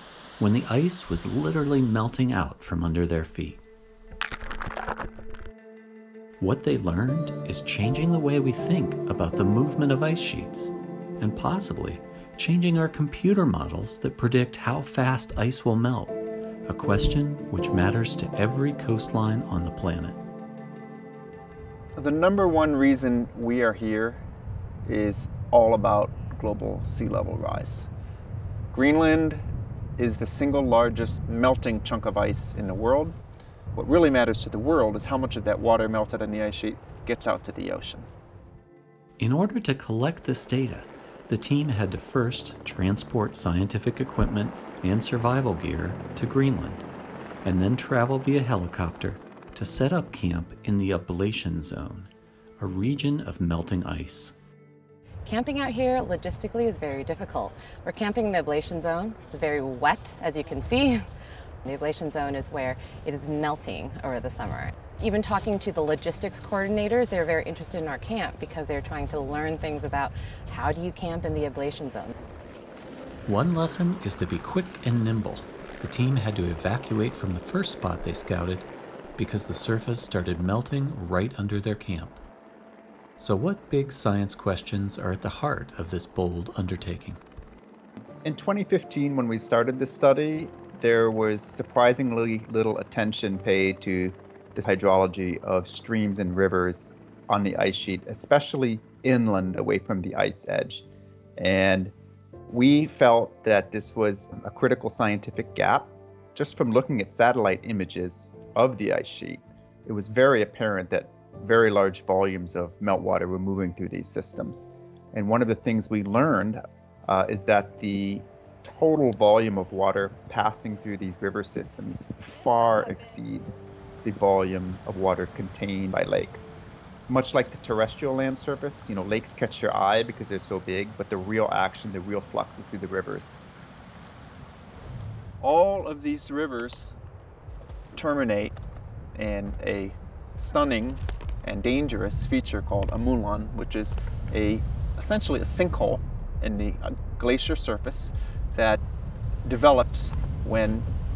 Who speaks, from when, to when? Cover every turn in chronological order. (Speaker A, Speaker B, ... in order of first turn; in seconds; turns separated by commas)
Speaker A: 0.4-3.6, Speaker A: 6.4-20.2, Speaker B: 22.0-24.2, Speaker B: 24.8-27.9, Speaker B: 28.7-29.4, Speaker B: 30.0-33.1, Speaker B: 33.8-38.1, Speaker A: 39.2-46.9, Speaker A: 47.4-54.3, Speaker C: 55.2-61.0, Speaker C: 61.6-72.1, Speaker A: 73.2-82.2, Speaker A: 83.2-87.2, Speaker D: 88.2-100.8, Speaker D: 101.4-101.9, Speaker D: 102.5-126.5, Speaker D: 127.1-133.3, Speaker B: 135.4-136.9, Speaker B: 137.9-138.5, Speaker B: 139.1-148.8, Speaker B: 149.4-150.9